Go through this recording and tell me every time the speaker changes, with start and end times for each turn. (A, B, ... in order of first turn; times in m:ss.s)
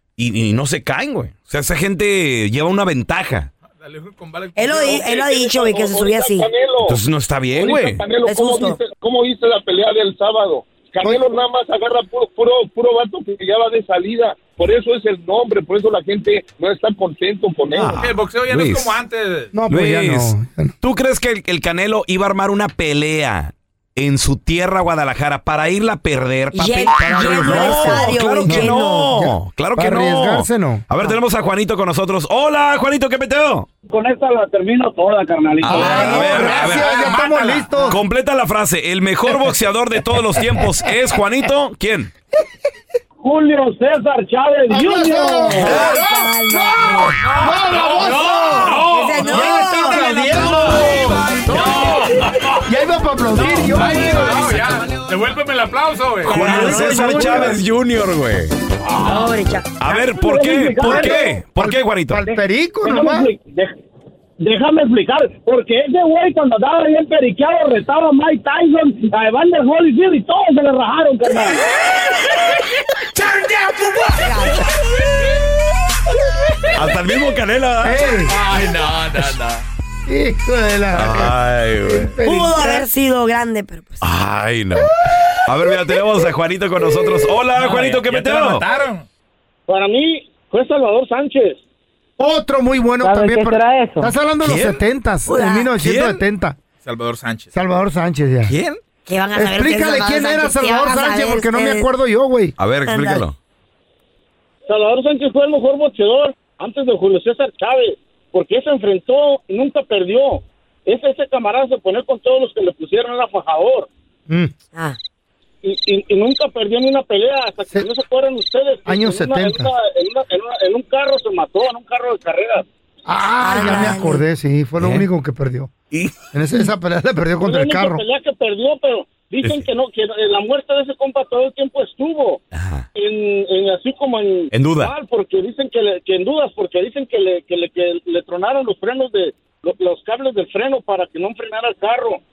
0:00.2-0:03.5 A
0:03.7-0:05.0 B
0:04.6-0:06.5 C
0:05.0-0:07.0 D
0:06.8-0:08.0 A
0:07.6-0:17.9 D
0:08.2-0:08.8 C
0:11.0-0:11.3 E
0:17.7-0:19.0 A
0:17.9-0:19.5 B
0:19.5-0:20.7 E
0:19.7-0:33.7 A
0:26.5-0:29.1 C
0:27.0-0:31.1 E
0:33.9-0:36.1 F
0:35.6-0:36.9 A
0:35.7-0:38.0 E
0:35.8-0:36.3 C
0:36.1-0:37.9 B
0:37.9-0:42.1 A
0:43.2-0:45.7 F
0:44.7-0:46.2 E
0:45.5-0:47.6 C
0:45.7-0:46.0 B
0:46.7-0:52.1 E
0:46.8-0:52.6 B
0:48.2-0:50.1 C
0:52.6-0:54.6 E
0:53.3-0:57.5 B
0:56.2-0:58.6 A
0:56.3-0:57.6 E
0:56.5-0:57.5 C
0:59.0-0:59.8 C
0:59.8-1:02.2 A
0:59.9-1:01.2 F
1:00.8-1:03.3 E
1:02.3-1:03.7 F
1:04.4-1:11.6 F
1:13.2-1:14.3 B
1:14.2-1:14.7 C
1:16.7-1:18.1 A
1:17.8-1:18.3 E
1:18.3-1:19.6 B
1:20.1-1:22.9 E
1:20.9-1:22.1 A
1:22.2-1:24.0 C
1:24.0-1:24.9 A
1:25.4-1:28.6 A
1:27.5-1:29.0 B
1:29.7-1:31.6 F
1:32.2-1:36.6 E
1:33.0-1:34.0 F
1:34.4-1:34.8 A
1:35.3-1:35.7 C
1:35.8-1:36.2 A
1:36.8-1:37.5 B
1:37.5-1:38.5 E
1:38.5-1:38.8 A
1:39.1-1:41.9 C
1:39.3-1:42.5 E
1:42.6-1:43.3 A
1:42.8-1:43.2 C
1:44.7-1:53.9 F
1:55.6-2:02.6 F
1:58.8-1:59.7 E
2:03.0-2:05.7 E
2:03.4-2:04.2 C
2:04.8-2:05.1 A
2:05.9-2:06.2 A
2:06.3-2:08.0 E
2:07.4-2:12.4 F
2:12.5-2:12.8 A
2:13.0-2:22.2 F
2:14.5-2:14.9 A